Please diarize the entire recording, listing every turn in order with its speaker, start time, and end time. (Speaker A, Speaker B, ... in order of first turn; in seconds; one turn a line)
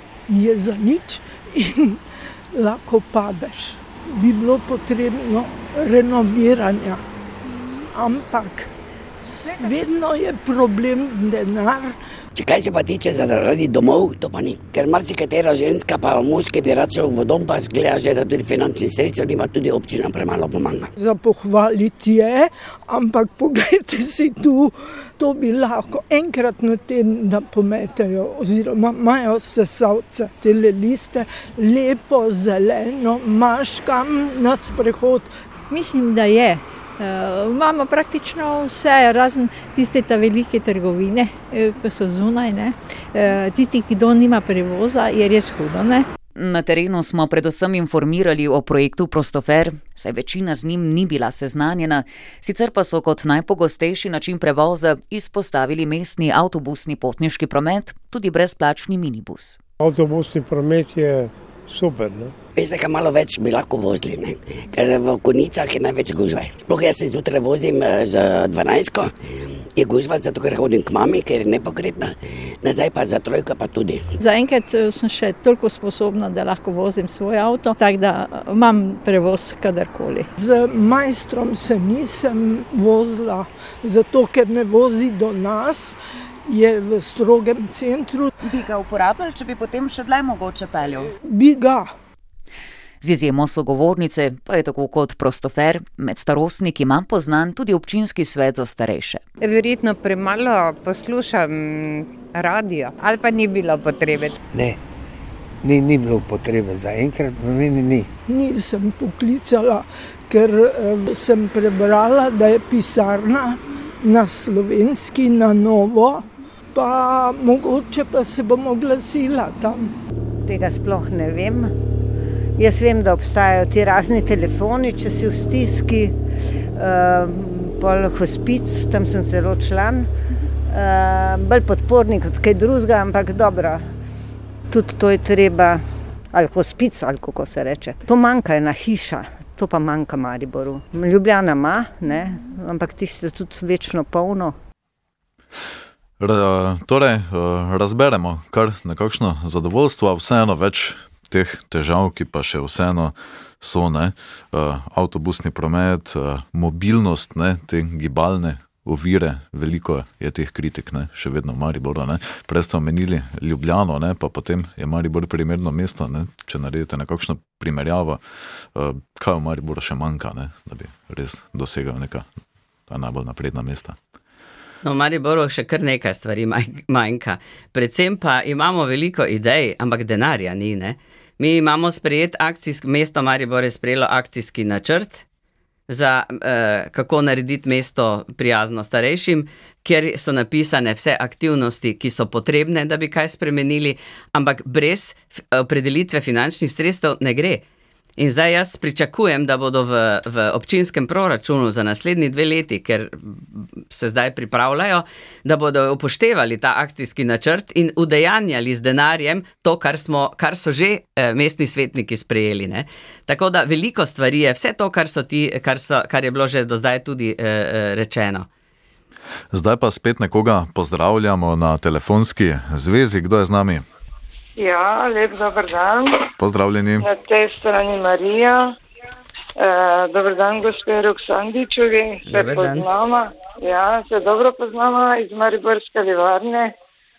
Speaker A: 0.3-2.0
Speaker A: 2.5-7.0
Speaker A: 7.9-8.7
Speaker A: 9.6-12.0
Speaker B: 12.3-20.9
Speaker A: 21.0-35.3
Speaker C: 35.7-46.1
Speaker D: 46.4-59.6
Speaker E: 59.8-62.3
Speaker B: 62.6-74.0
Speaker C: 74.2-80.3
Speaker A: 80.4-88.3
Speaker D: 88.4-91.1
Speaker A: 91.2-91.9
Speaker D: 93.0-99.2
Speaker F: 99.4-104.3
Speaker G: 104.5-104.8
Speaker G: 105.6-108.1
Speaker A: 108.3-119.9
Speaker H: 120.5-121.7
Speaker H: 122.6-126.2
Speaker H: 126.8-130.1
Speaker H: 130.7-133.8
Speaker H: 134.7-144.6
Speaker I: 146.2-168.2
Speaker I: 168.8-172.3
Speaker I: 172.9-174.0
Speaker J: 174.8-185.2
Speaker J: 185.9-197.6
Speaker J: 198.2-218.5
Speaker I: 219.5-223.8
Speaker K: 224.6-226.3
Speaker I: 226.4-227.1
Speaker K: 227.0-228.8
Speaker K: 229.6-236.8
Speaker J: 232.2-232.9